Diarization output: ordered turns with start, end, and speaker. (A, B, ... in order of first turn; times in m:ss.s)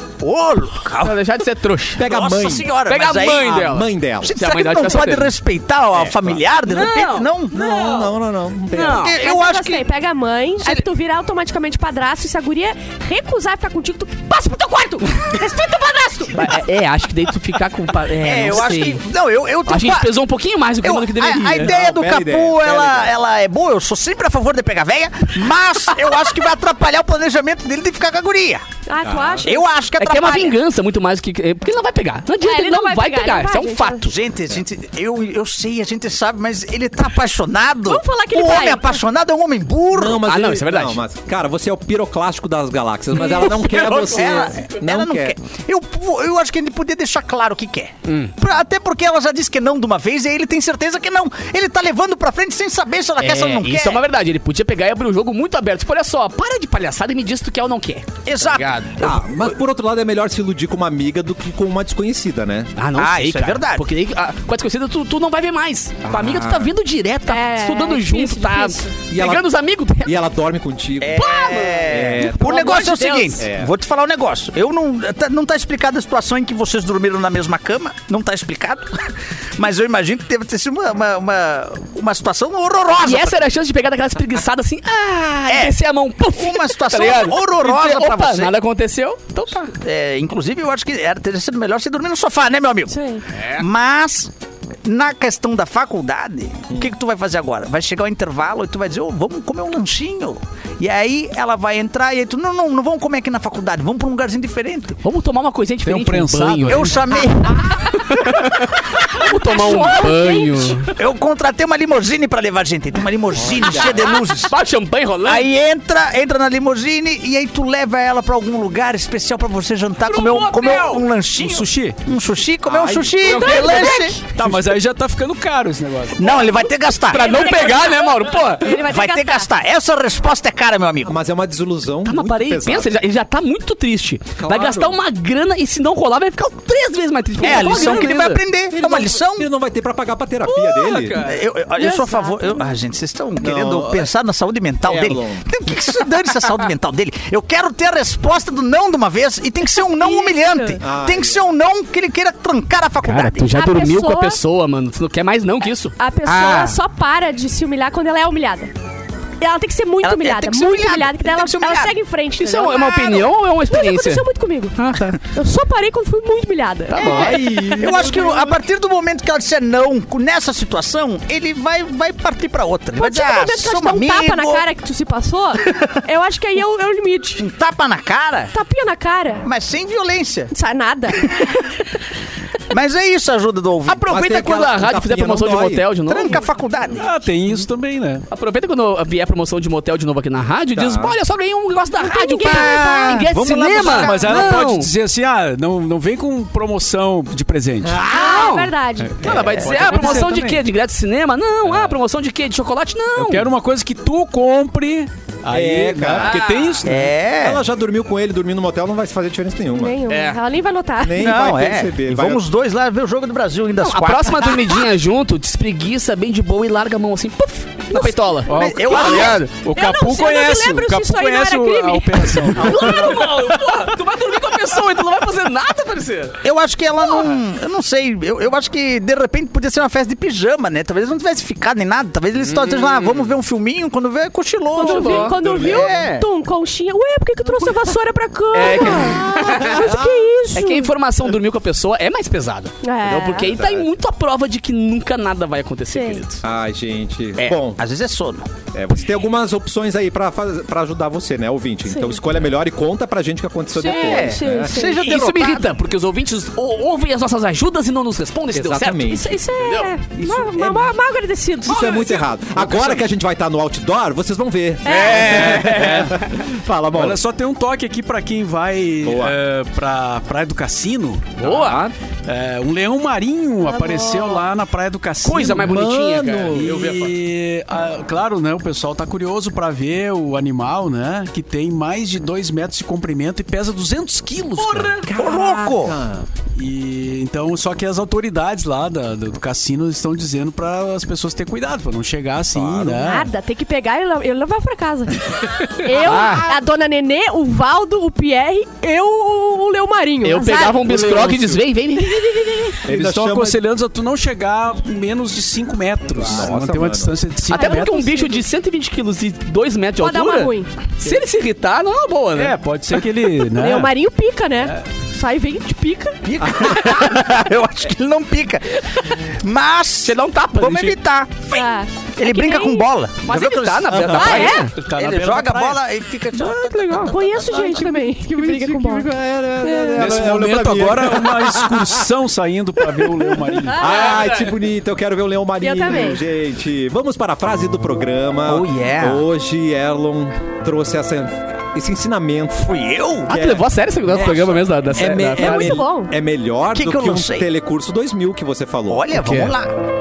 0:00.2-0:01.2 A
0:01.0-0:02.0 B
0:02.0-0:02.7 C
0:02.0-0:08.1 A
0:02.8-0:05.3 B
0:03.4-0:04.3 C
0:06.0-0:06.4 C
0:06.7-0:08.1 B
0:07.5-0:09.1 C
0:08.7-0:09.2 B
0:08.7-0:09.9 A
0:09.2-0:15.4 D
0:15.0-0:16.6 A
0:16.3-0:19.0 B
0:18.2-0:20.1 A
0:19.7-0:21.7 B
0:20.8-0:28.6 A
0:21.5-0:23.1 C
0:28.9-0:29.6 D
0:29.0-0:29.5 C
0:29.4-0:30.6 A
0:30.0-0:34.0 B
0:32.4-0:34.1 D
0:33.8-0:40.2 A
0:37.9-0:39.0 D
0:39.9-0:45.4 C
0:40.2-0:41.0 B
0:43.1-0:54.0 A
0:43.4-0:44.6 B
0:48.0-0:48.3 B
0:53.2-0:59.0 B
0:58.2-0:59.5 A
0:59.0-1:02.7 C
1:02.8-1:10.2 B
1:03.0-1:03.9 A
1:06.0-1:06.7 C
1:07.3-1:09.0 D
1:09.1-1:09.5 C
1:10.0-1:11.3 C
1:11.0-1:23.4 A
1:11.1-1:12.2 B
1:11.8-1:12.8 C
1:12.2-1:13.4 D
1:13.4-1:13.7 C
1:23.0-1:29.7 B
1:25.5-1:28.5 A
1:29.6-1:34.3 A
1:32.9-1:33.2 D
1:33.3-1:33.6 B
1:34.8-1:45.0 A
1:45.0-1:50.9 B
1:45.8-1:47.0 E
1:46.7-1:48.1 A
1:49.2-1:50.8 D
1:51.0-1:54.5 A
1:53.4-1:54.1 C
1:53.7-1:55.5 B
1:55.2-2:04.2 A
2:00.1-2:01.0 B
2:01.4-2:02.0 E
2:02.6-2:03.4 C
2:03.2-2:04.1 B
2:03.2-2:04.2 D
2:04.3-2:06.2 E
2:06.2-2:07.6 A
2:06.2-2:09.5 D
2:07.1-2:08.9 B
2:08.7-2:11.2 A
2:11.0-2:13.0 C
2:12.0-2:18.4 B
2:14.4-2:15.0 C
2:17.4-2:19.5 A
2:17.4-2:18.1 C
2:18.7-2:21.2 C
2:20.5-2:21.5 B
2:21.2-2:33.6 A
2:21.8-2:22.6 D
2:23.4-2:24.1 C
2:24.9-2:25.4 C
2:29.9-2:30.8 D
2:30.8-2:31.4 C
2:33.0-2:36.0 B
2:33.5-2:34.4 D
2:36.0-2:38.7 D
2:36.3-2:36.8 A
2:39.4-2:48.1 D
2:40.0-2:42.0 A
2:42.4-2:45.2 B
2:46.9-2:54.6 A
2:47.0-2:48.6 C
2:53.0-2:57.5 D
2:57.4-2:58.5 A
2:58.5-2:59.5 D
2:59.4-3:00.5 A
3:00.5-3:01.4 D
3:02.7-3:04.1 A
3:03.9-3:06.4 B
3:04.1-3:05.9 C
3:06.1-3:07.1 A
3:07.0-3:08.2 E
3:08.3-3:14.9 B
3:10.8-3:11.2 C
3:12.0-3:13.3 D
3:12.4-3:14.5 A
3:13.8-3:18.0 E
3:18.0-3:19.5 D
3:18.1-3:23.5 B
3:19.3-3:19.7 A
3:19.4-3:20.5 E
3:19.8-3:20.6 C
3:21.6-3:22.0 E
3:23.2-3:27.1 E
3:25.5-3:30.0 C
3:26.2-3:26.9 B
3:26.9-3:27.6 A
3:29.7-3:31.4 D
3:30.1-3:30.4 B
3:31.0-3:32.4 C
3:31.1-3:34.8 A
3:33.8-3:39.5 B
3:37.9-3:39.4 A
3:38.5-3:43.3 E
3:39.6-3:42.6 D
3:42.6-3:46.4 B
3:42.6-3:43.2 C
3:46.4-3:56.3 A
3:54.8-4:00.9 D
3:54.8-3:55.4 B
3:55.4-3:56.0 C
3:58.5-3:59.9 B
3:58.8-4:00.3 C
4:00.5-4:06.4 B
4:02.8-4:03.5 D
4:03.4-4:03.9 C
4:05.9-4:06.2 D
4:06.4-4:07.8 C
4:07.4-4:08.5 A
4:08.7-4:14.8 C
4:11.9-4:12.2 D
4:13.8-4:15.0 D
4:13.8-4:15.7 A
4:15.0-4:20.0 B
4:18.5-4:19.4 C
4:18.8-4:22.3 D
4:20.2-4:20.9 C
4:21.6-4:27.2 C
4:22.6-4:23.0 B
4:24.8-4:25.8 D
4:24.8-4:26.4 B
4:25.5-4:26.2 E
4:26.9-4:31.5 E
4:29.0-4:29.4 C
4:31.4-4:31.8 B
4:31.4-4:31.9 C
4:32.2-4:35.9 E
4:33.9-4:34.3 D
4:35.2-4:37.1 B
4:35.5-4:36.8 C
4:36.5-4:45.0 E
4:44.7-4:46.3 C
4:45.1-4:46.0 A
4:46.6-4:53.3 E
4:52.5-4:52.9 C
4:52.9-5:00.9 D
4:56.0-4:56.5 B
4:56.0-4:56.3 C
5:00.2-5:02.8 B
5:00.4-5:01.6 C
5:02.0-5:02.8 D
5:02.8-5:08.1 E
5:02.9-5:03.6 C
5:06.2-5:07.2 C
5:07.5-5:12.6 B
5:07.5-5:08.4 D
5:10.0-5:10.7 D
5:12.3-5:13.9 E
5:13.5-5:16.6 D
5:16.2-5:27.5 A
5:20.0-5:21.0 B
5:21.5-5:22.9 D
5:23.2-5:24.7 B
5:23.9-5:24.6 C
5:24.1-5:24.7 D
5:24.7-5:25.8 E
5:26.4-5:27.1 B
5:26.9-5:30.0 D
5:27.5-5:32.1 C
5:30.0-5:34.2 E
5:33.6-5:34.5 D
5:33.7-5:42.7 C
5:35.6-5:36.2 D
5:38.4-5:39.3 A
5:42.6-5:43.3 A
5:43.3-5:45.8 B
5:43.3-5:49.2 C
5:45.2-5:46.1 D
5:46.7-5:47.5 A
5:48.9-5:49.7 A
5:49.2-5:49.5 B